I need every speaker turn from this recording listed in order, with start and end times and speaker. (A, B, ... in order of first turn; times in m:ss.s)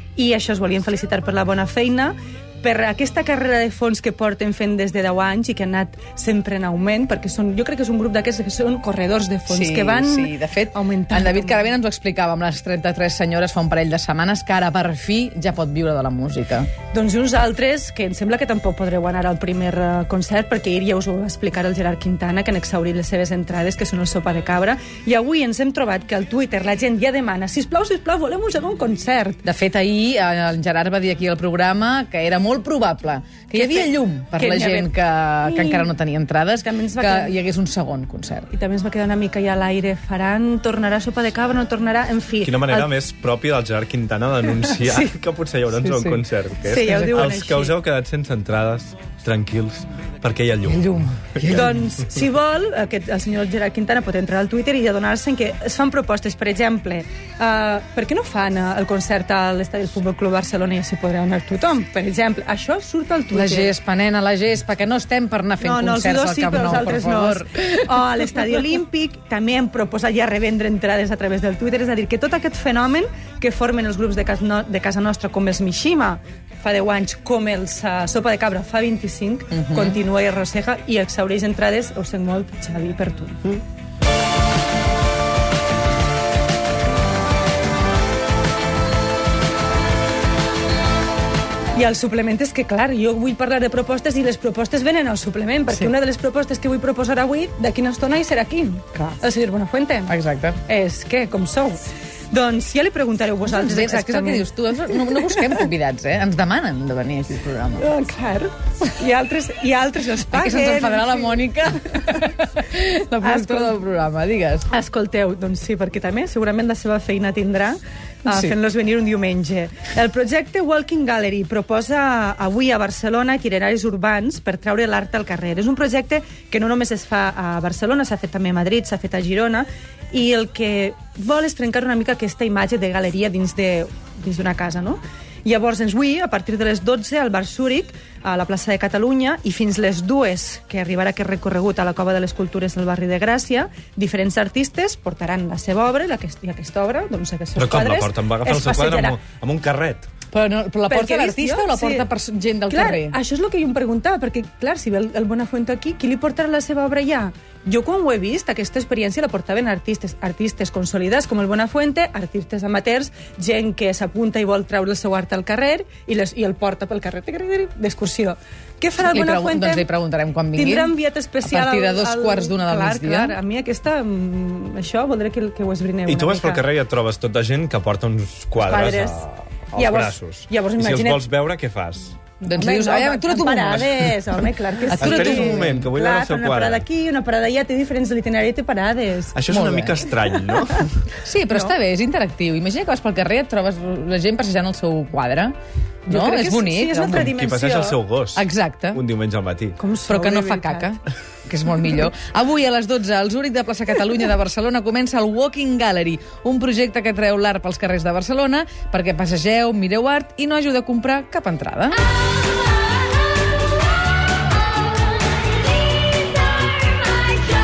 0:00.2-0:11.6 A
0:09.5-0:16.7 B
0:16.9-0:29.4 A
0:29.4-0:38.5 B
0:33.5-0:34.9 A
0:35.4-0:35.9 A
0:36.6-0:37.4 A
0:38.5-0:42.9 A
0:42.4-0:51.6 C
0:45.8-0:46.2 B
0:46.7-0:47.7 A
0:46.9-0:47.3 B
0:50.7-0:51.9 B
0:51.5-1:03.7 A
1:03.3-1:07.9 B
1:05.6-1:23.6 A
1:19.5-1:20.0 B
1:31.8-1:40.1 A
1:40.1-1:40.6 B
1:40.7-1:41.8 A
1:42.3-1:45.6 A
1:43.4-1:47.9 B
1:47.8-1:51.4 A
1:50.3-1:54.7 B
1:53.2-1:53.8 A
1:54.7-2:29.2 A
2:27.6-2:30.1 C
2:30.3-2:33.2 B
2:30.9-2:32.1 A
2:32.7-2:49.9 A
2:49.0-2:53.4 B
2:50.6-2:56.6 A
2:56.1-3:02.1 C
2:58.6-3:01.2 A
3:02.4-3:09.4 A
3:02.4-3:04.2 B
3:04.9-3:05.8 B
3:05.0-3:06.8 C
3:09.3-3:10.9 C
3:09.5-3:10.1 B
3:11.2-3:15.6 B
3:16.1-3:18.0 A
3:16.1-3:17.4 B
3:17.4-3:19.8 C
3:18.4-3:19.0 B
3:19.8-3:20.9 A
3:20.1-3:32.0 B